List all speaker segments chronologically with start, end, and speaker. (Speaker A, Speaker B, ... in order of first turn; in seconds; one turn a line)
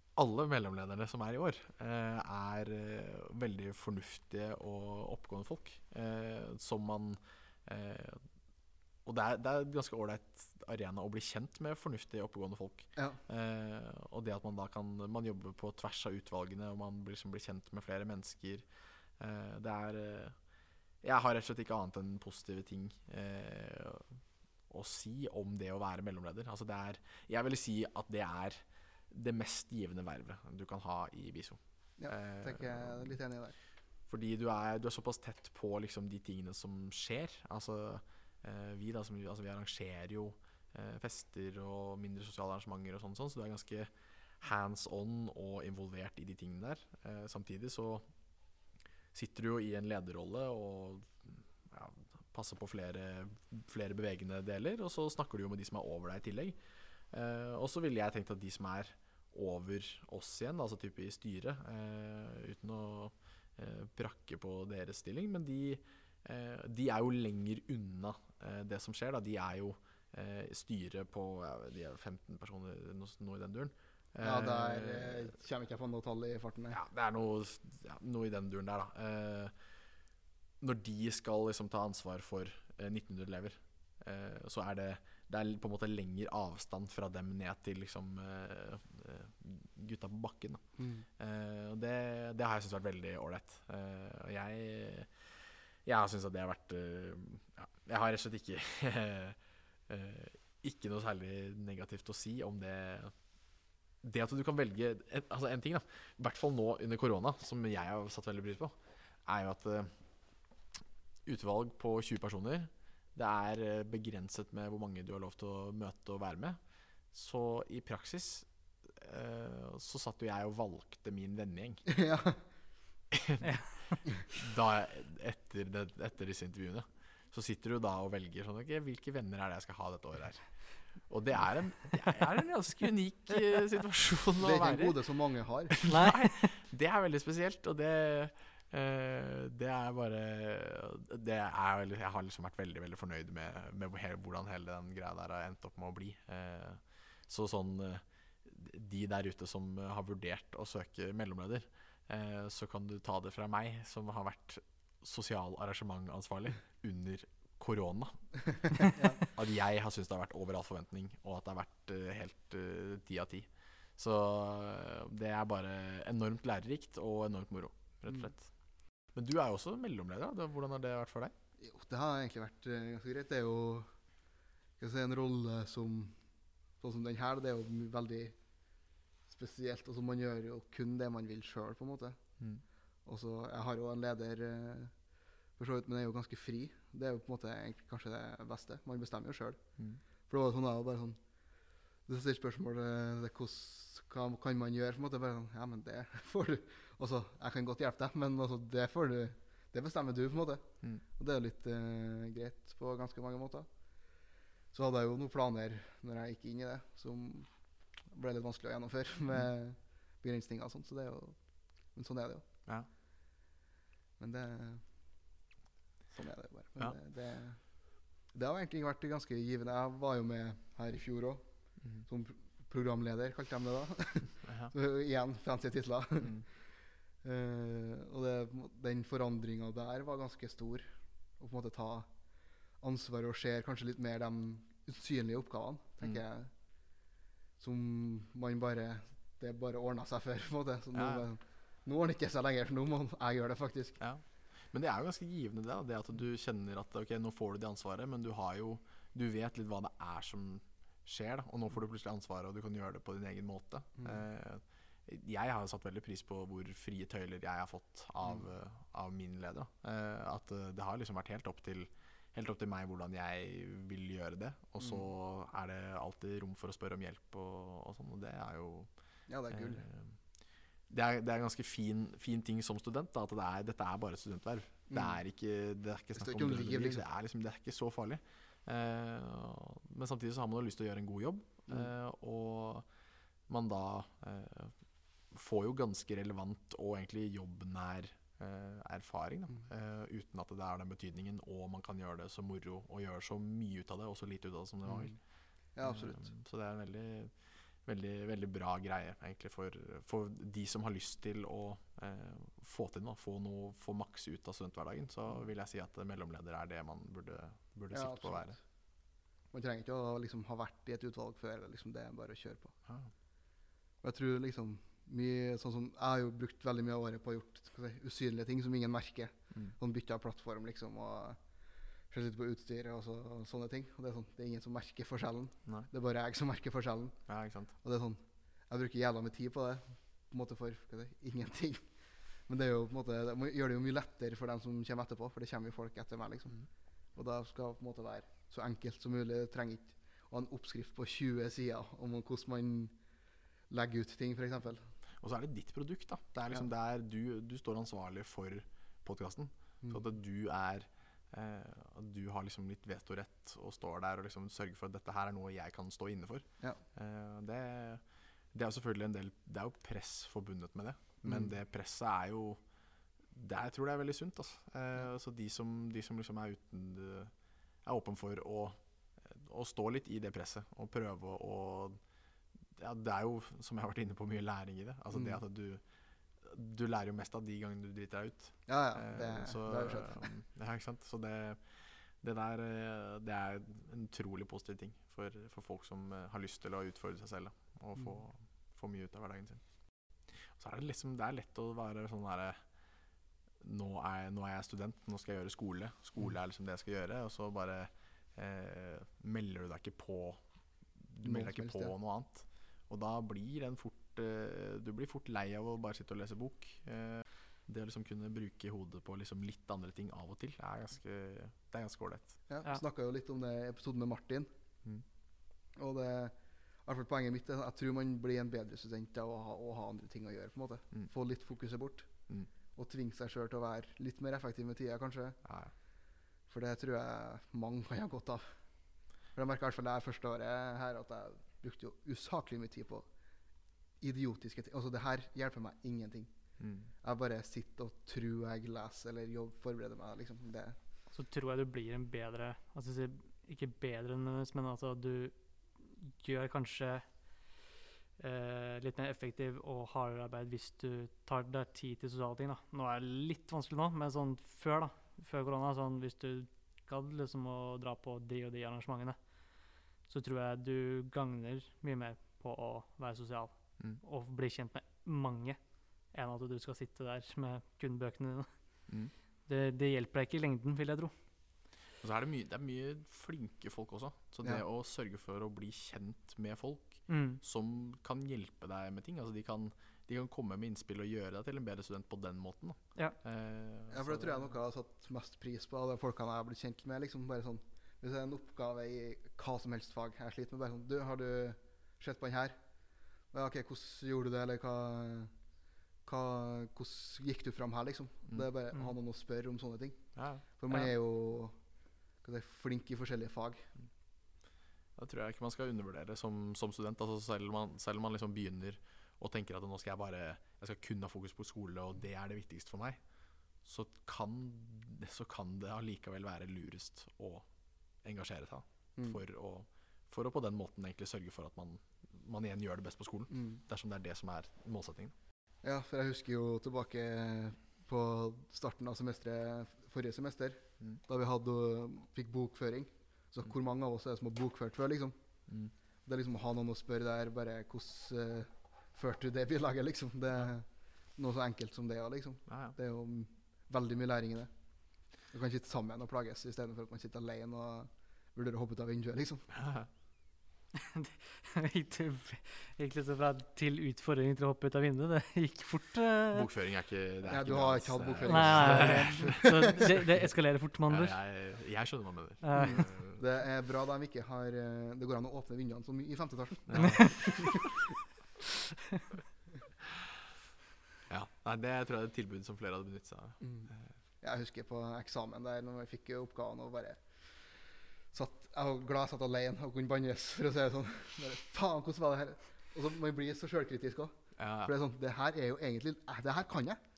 Speaker A: 0.1-8.2
Speaker A: 9.1-18.7
Speaker A: 19.2-20.4
Speaker A: 21.0-33.2
Speaker B: 32.0-33.6
Speaker A: 34.1-48.0
Speaker A: 49.1-56.6
Speaker A: 57.1-75.4
Speaker B: 74.2-76.8
Speaker A: 76.7-79.5
Speaker A: 80.6-90.6
Speaker B: 90.8-91.1
Speaker A: 91.2-95.3
Speaker A: 95.8-103.2
Speaker A: 104.0-109.9
Speaker A: 111.2-116.6
Speaker A: 117.1-121.8
Speaker B: 121.9-122.4
Speaker A: 123.1-135.0
Speaker C: 123.4-123.7
Speaker B: 134.4-135.8
Speaker A: 135.7-168.5
Speaker C: 135.9-136.6
Speaker B: 158.7-159.3
Speaker A: 169.1-171.3
Speaker B: 171.6-173.9
Speaker B: 174.8-176.2
Speaker B: 176.8-178.4
Speaker B: 179.3-182.2
Speaker B: 183.1-184.9
Speaker B: 185.6-189.6
Speaker B: 190.3-191.2
Speaker B: 192.1-203.7
Speaker B: 204.7-207.5
Speaker B: 208.1-211.4
Speaker B: 211.9-212.4
Speaker B: 214.2-214.8
Speaker B: 216.1-221.4
Speaker B: 222.1-226.4
Speaker A: 224.4-224.7
Speaker A: 226.2-226.5
Speaker B: 227.2-230.9
Speaker B: 231.4-232.1
Speaker B: 232.8-236.5
Speaker B: 237.6-244.0
Speaker A: 240.9-241.3
Speaker A: 244.0-268.9
Speaker B: 254.0-254.2
Speaker B: 264.8-265.1
Speaker B: 269.3-269.9
Speaker A: 269.5-270.2
Speaker A: 270.9-282.9
Speaker B: 274.9-275.2
Speaker B: 276.2-277.0
Speaker A: 283.5-284.8
Speaker A: 285.3-295.2
Speaker B: 294.9-295.2
Speaker B: 295.8-296.3
Speaker A: 295.8-308.6
Speaker B: 307.9-308.6
Speaker B: 309.5-312.8
Speaker A: 312.9-313.1
Speaker B: 314.0-321.4
Speaker B: 322.1-327.2
Speaker A: 327.3-327.7
Speaker B: 327.8-331.9
Speaker B: 332.5-336.6
Speaker B: 337.2-342.9
Speaker B: 343.7-344.9
Speaker A: 345.2-362.6
Speaker B: 361.2-361.5
Speaker A: 363.3-372.0
Speaker A: 372.8-375.8
Speaker B: 375.1-375.4
Speaker A: 376.4-389.6
Speaker B: 378.7-380.3
Speaker A: 390.4-392.6
Speaker A: 393.6-400.4
Speaker A: 401.0-412.4
Speaker B: 401.2-401.9
Speaker B: 412.5-414.5
Speaker B: 415.8-422.1
Speaker B: 422.8-425.4
Speaker A: 425.4-425.7
Speaker B: 426.5-428.5
Speaker B: 429.4-433.1
Speaker B: 434.0-436.3
Speaker A: 436.6-436.9
Speaker B: 437.0-440.8
Speaker C: 441.1-447.3
Speaker C: 448.2-459.2
Speaker C: 460.1-465.6
Speaker C: 466.1-468.5
Speaker A: 468.9-469.1
Speaker C: 469.5-471.1
Speaker A: 472.0-484.6
Speaker C: 477.1-477.4
Speaker B: 483.9-492.6
Speaker B: 493.3-495.3
Speaker B: 496.1-501.6
Speaker A: 500.1-500.4
Speaker B: 502.2-503.7
Speaker A: 505.0-513.0
Speaker A: 513.6-517.5
Speaker A: 518.0-525.1
Speaker B: 523.3-523.6
Speaker B: 525.6-535.2
Speaker B: 536.1-544.5
Speaker A: 542.5-542.8
Speaker B: 545.3-549.5
Speaker A: 549.5-549.9
Speaker C: 550.8-556.5
Speaker A: 556.3-560.3
Speaker B: 557.3-559.8
Speaker C: 558.2-561.1
Speaker A: 560.9-563.2
Speaker C: 562.4-562.9
Speaker B: 562.5-567.7
Speaker A: 566.7-567.7
Speaker C: 566.8-567.1
Speaker A: 571.1-573.9
Speaker B: 573.4-577.2
Speaker B: 578.1-586.8
Speaker A: 584.4-584.7